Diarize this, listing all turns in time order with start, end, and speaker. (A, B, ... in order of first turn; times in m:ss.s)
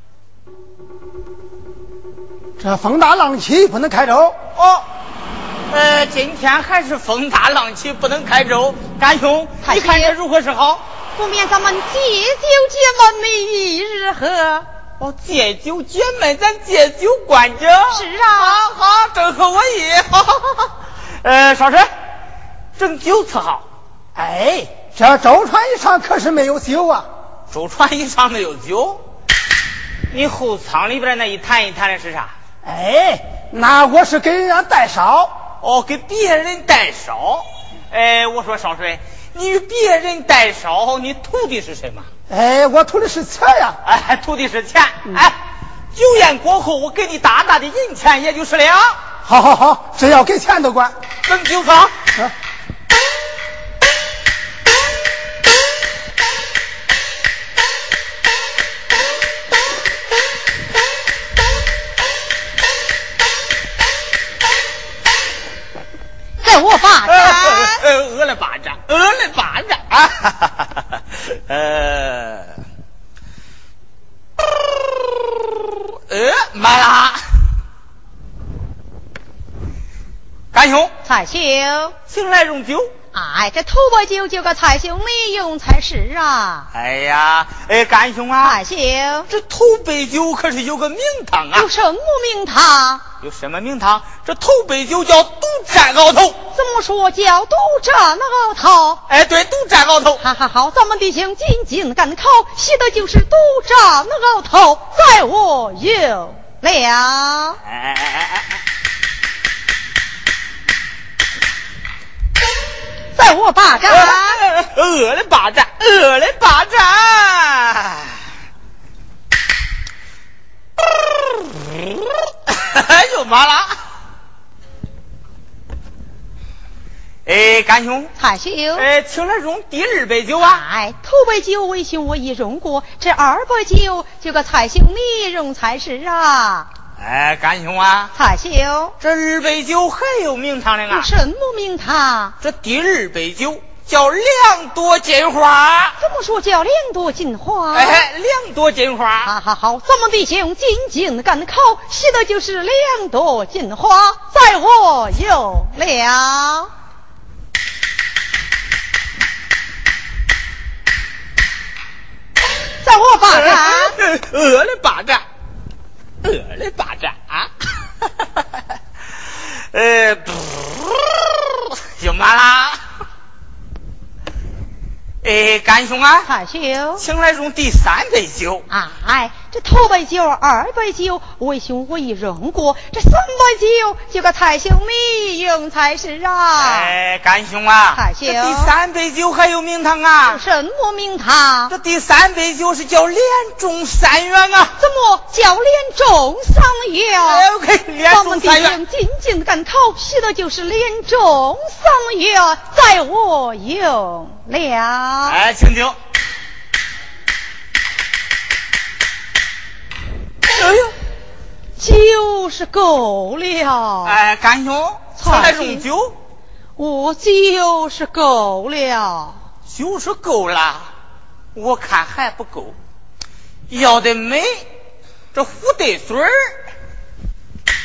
0:02.6-0:04.4 A
0:04.6-0:04.9 B
0:05.7-0:10.8 B
0:09.6-0:10.2 C
0:11.2-0:14.7 C
0:15.0-0:20.7 B
0:17.9-0:18.7 C
0:21.2-0:21.9 B
0:22.8-0:23.6 B
0:24.2-0:27.1 A
0:27.5-0:29.0 B
0:30.1-0:32.3 B
0:32.6-0:35.3 A
0:35.6-0:42.1 B
0:42.3-0:43.8 A
0:43.8-0:45.4 B
0:45.9-0:49.0 B
0:49.3-0:50.9 A
0:51.3-0:52.0 B
1:06.4-1:07.8 C
1:07.1-1:12.5 B
1:15.2-1:17.2 B
1:20.5-1:20.9 B
1:21.0-1:22.0 C
1:22.1-1:22.9 B
1:23.1-1:26.7 C
1:26.7-1:28.6 B
1:28.4-1:29.3 C
1:29.3-1:31.7 B
1:31.5-1:33.0 C
1:33.2-1:36.4 B
1:36.5-1:39.0 C
1:39.1-1:40.2 B
1:40.2-1:47.6 C
1:47.7-1:48.5 B
1:53.2-1:54.4 C
1:53.9-1:58.2 B
2:02.5-2:03.8 B
2:07.3-2:08.1 B
2:08.2-2:08.9 C
2:08.8-2:10.6 B
2:10.4-2:16.7 C
2:17.0-2:18.1 B
2:18.2-2:19.0 C
2:19.0-2:21.1 B
2:20.9-2:22.4 C
2:22.4-2:26.0 B
2:26.0-2:28.1 C
2:27.7-2:29.3 B
2:29.2-2:36.7 C
2:42.8-2:44.0 C
2:43.3-2:45.2 B
2:46.2-2:47.5 B
2:49.4-2:52.8 B
2:55.2-2:56.3 B
2:56.2-2:57.0 C
2:57.0-2:58.6 B
2:58.7-3:06.9 C
3:06.6-3:10.4 B
3:07.9-3:08.7 C
3:10.3-3:11.7 C
3:11.7-3:14.8 B
3:14.8-3:17.5 C
3:17.2-3:18.8 B
3:18.1-3:25.4 C
3:25.3-3:26.0 B
3:30.6-3:30.9 B
3:31.8-3:34.2 C
3:34.0-3:36.2 B
3:35.2-3:35.8 C
3:36.8-3:39.4 C
3:39.7-3:40.9 B
3:41.6-3:42.8 B
3:43.7-3:44.7 B
3:45.3-3:46.6 B